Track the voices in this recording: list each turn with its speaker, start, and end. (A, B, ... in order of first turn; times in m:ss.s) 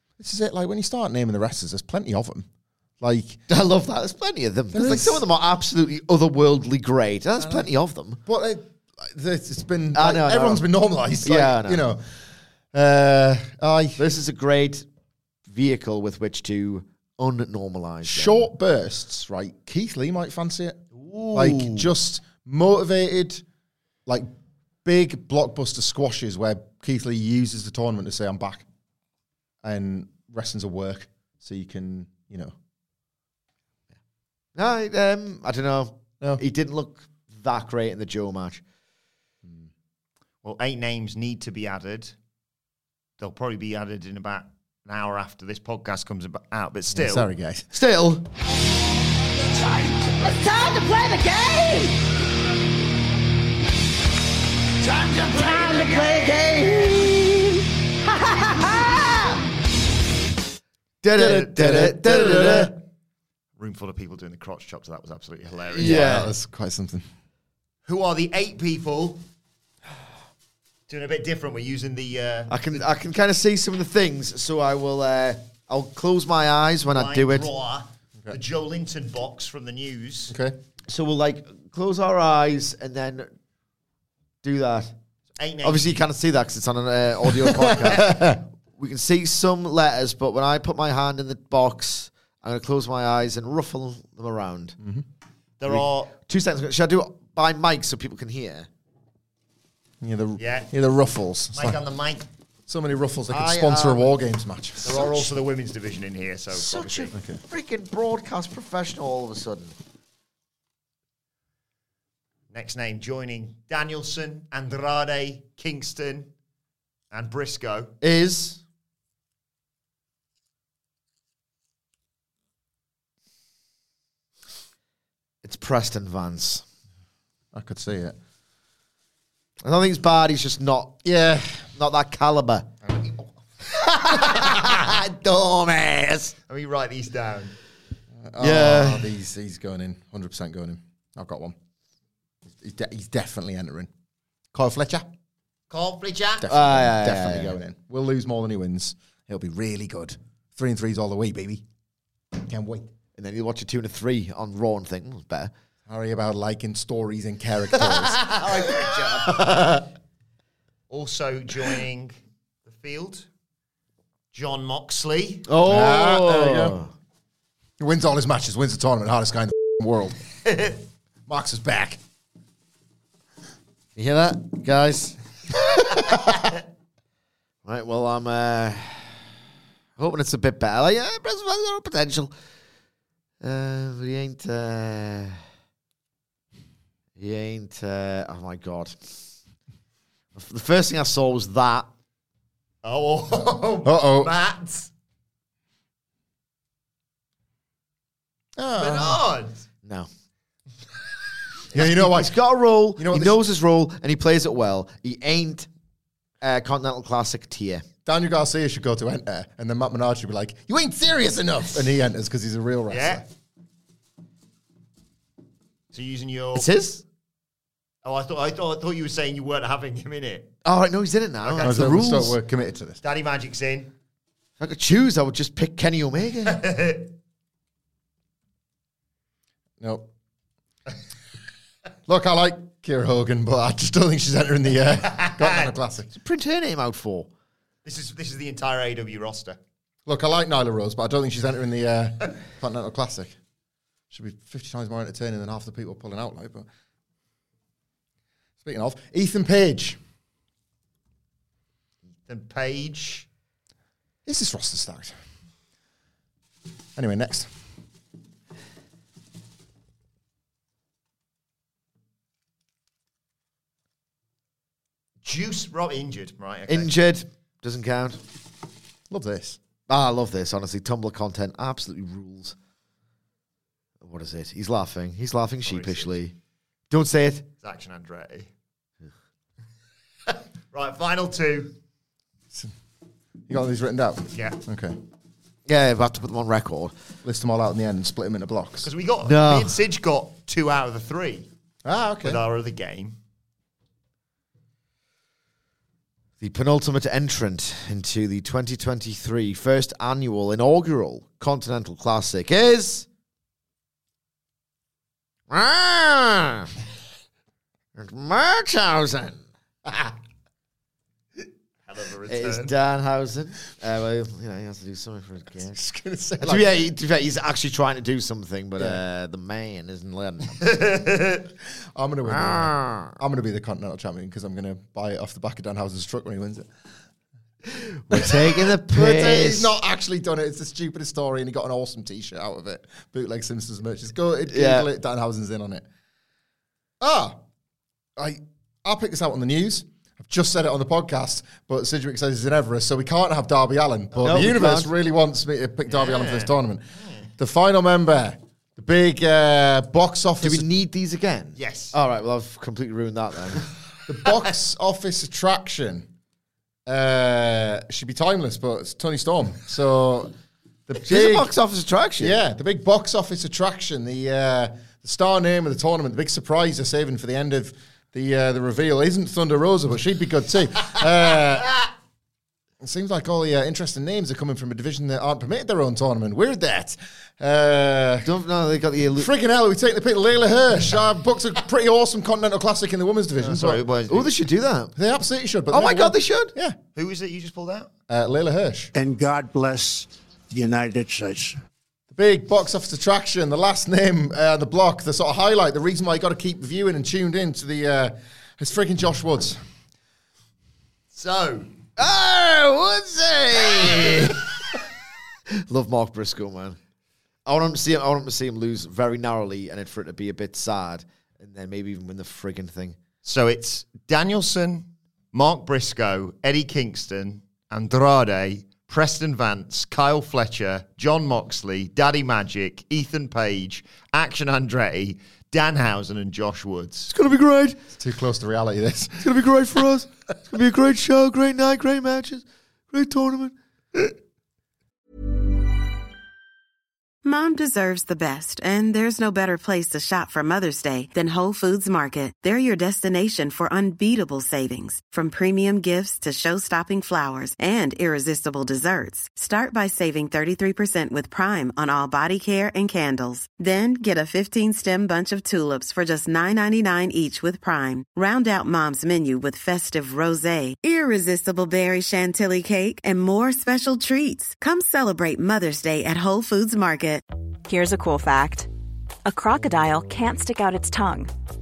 0:00.2-0:02.5 A
0:03.0-0:03.4 A
0:03.5-0:08.2 B
0:04.7-0:05.2 A
0:07.4-0:07.7 A
0:08.2-0:12.2 A
0:09.9-0:10.6 B
0:11.2-0:11.8 B
0:12.7-0:14.0 A
0:14.0-0:14.8 B
0:15.5-0:18.5 B
0:18.0-0:20.8 A
0:21.2-0:21.7 B
0:21.3-0:23.4 A
0:24.8-0:28.6 A
0:29.6-0:32.5 A
0:34.6-0:38.6 B
0:40.4-0:42.1 C
0:43.2-0:47.3 C
0:46.9-0:47.8 A
0:47.7-0:48.2 B
0:49.5-0:52.0 D
0:54.8-0:59.4 D
1:01.0-1:02.7 B
1:01.2-1:02.8 C
1:01.2-1:02.7 A
1:03.6-1:06.2 C
1:05.7-1:06.3 B
1:05.8-1:07.1 A
1:07.8-1:09.2 C
1:10.9-1:12.8 C
1:12.5-1:17.5 B
1:16.9-1:20.3 C
1:20.3-1:20.6 A
1:20.9-1:23.3 B
1:24.4-1:24.9 B
1:25.4-1:26.0 C
1:25.6-1:34.8 B
1:27.5-1:28.4 A
1:34.8-1:35.0 A
1:35.6-1:36.1 C
1:36.1-1:38.7 B
1:40.0-1:41.8 A
1:40.4-1:40.7 C
1:41.5-1:42.2 C
1:42.7-1:45.3 A
1:43.3-1:43.9 C
1:44.8-1:47.1 C
1:44.9-1:45.2 B
1:46.5-1:49.7 B
1:47.1-1:47.4 A
1:52.5-1:56.3 C
1:57.1-1:57.9 C
1:58.0-1:58.6 B
2:05.4-2:06.6 B
2:07.5-2:08.2 A
2:09.6-2:11.0 B
2:11.0-2:11.7 A
2:11.7-2:12.7 B
2:12.8-2:13.2 A
2:13.9-2:16.3 B
2:16.5-2:17.5 C
2:18.2-2:21.6 A
2:18.4-2:19.1 B
2:22.5-2:23.9 A
2:24.5-2:25.1 A
2:25.7-2:26.5 C
2:26.4-2:31.6 A
2:26.5-2:27.5 B
2:32.4-2:32.9 A
2:33.2-2:35.5 B
2:35.9-2:39.8 A
2:37.8-2:39.4 B
2:40.9-2:42.1 C
2:42.6-2:43.2 C
2:44.3-2:45.4 C
2:45.4-2:46.9 B
2:45.6-2:46.8 A
2:47.8-2:50.2 A
2:50.5-2:50.7 C
2:51.3-2:52.0 A
2:54.0-2:55.2 B
2:57.6-2:59.3 B
3:00.0-3:02.3 B
3:03.4-3:05.4 B
3:07.2-3:09.2 B
3:10.3-3:11.9 B
3:12.8-3:14.9 C
3:13.8-3:14.3 A
3:18.6-3:19.2 A
3:18.8-3:19.6 C
3:21.7-3:22.4 A
3:21.8-3:25.7 B
3:23.0-3:23.4 A
3:26.4-3:27.8 B
3:28.0-3:33.2 A
3:32.9-3:33.2 C
3:35.9-3:36.7 C
3:36.5-3:37.0 B
3:38.0-3:40.5 C
3:40.6-3:42.4 B
3:41.4-3:42.0 C
3:41.6-3:43.0 A
3:43.0-3:43.9 C
3:44.6-3:46.6 B
3:46.5-3:47.1 C
3:49.8-3:50.1 A
3:52.1-3:56.1 A
3:55.1-3:55.7 C
3:56.1-3:57.3 B
3:57.8-3:59.6 C
4:00.0-4:03.4 A
4:04.1-4:06.7 A
4:08.6-4:10.0 A
4:12.2-4:13.2 C
4:14.2-4:15.2 A
4:17.0-4:17.5 A
4:25.2-4:26.9 C
4:26.7-4:28.2 B
4:29.1-4:29.6 A
4:29.9-4:32.5 B
4:34.0-4:36.3 B
4:35.6-4:36.1 C
4:36.9-4:37.5 B
4:37.6-4:38.5 C
4:40.3-4:41.7 C
4:43.5-4:45.0 A
4:45.6-4:46.9 B
4:47.2-4:48.9 A
4:48.8-4:51.5 C
4:49.2-4:49.8 B
4:51.8-4:52.4 A
4:52.2-4:53.2 C
4:56.4-5:03.1 B
5:05.5-5:06.7 B
5:08.0-5:09.4 B
5:11.8-5:12.7 C
5:12.3-5:15.8 B
5:15.6-5:16.7 A
5:16.4-5:20.7 B
5:20.6-5:21.4 C
5:21.9-5:26.7 A
5:22.2-5:23.2 B
5:27.7-5:29.7 B
5:28.1-5:35.8 A
5:34.5-5:34.9 B
5:37.0-5:37.4 A
5:38.2-5:46.8 A
5:44.2-5:44.9 B
5:45.9-5:46.5 C
5:47.4-5:50.7 A
5:50.4-5:53.6 B
5:51.6-5:51.9 C
5:54.1-5:56.1 A
5:56.8-6:00.3 A
6:00.9-6:01.5 A
6:01.0-6:02.4 B
6:02.2-6:11.9 A
6:12.8-6:18.3 A
6:18.2-6:19.3 B
6:19.2-6:23.8 A
6:23.4-6:24.3 C
6:24.1-6:24.9 B
6:24.9-6:26.8 A
6:25.7-6:26.5 B
6:27.0-6:27.9 C
6:28.1-6:28.9 A
6:28.9-6:31.6 E
6:32.1-6:39.6 A
6:41.1-6:41.7 C
6:42.0-6:44.4 B
6:45.7-6:46.8 B
6:47.4-6:53.0 B
6:53.2-7:07.1 C
7:07.1-7:07.8 B
7:07.9-7:09.4 A
7:09.2-7:13.5 B
7:17.2-7:47.2 F
7:47.6-7:48.7 G
7:49.2-7:51.3 G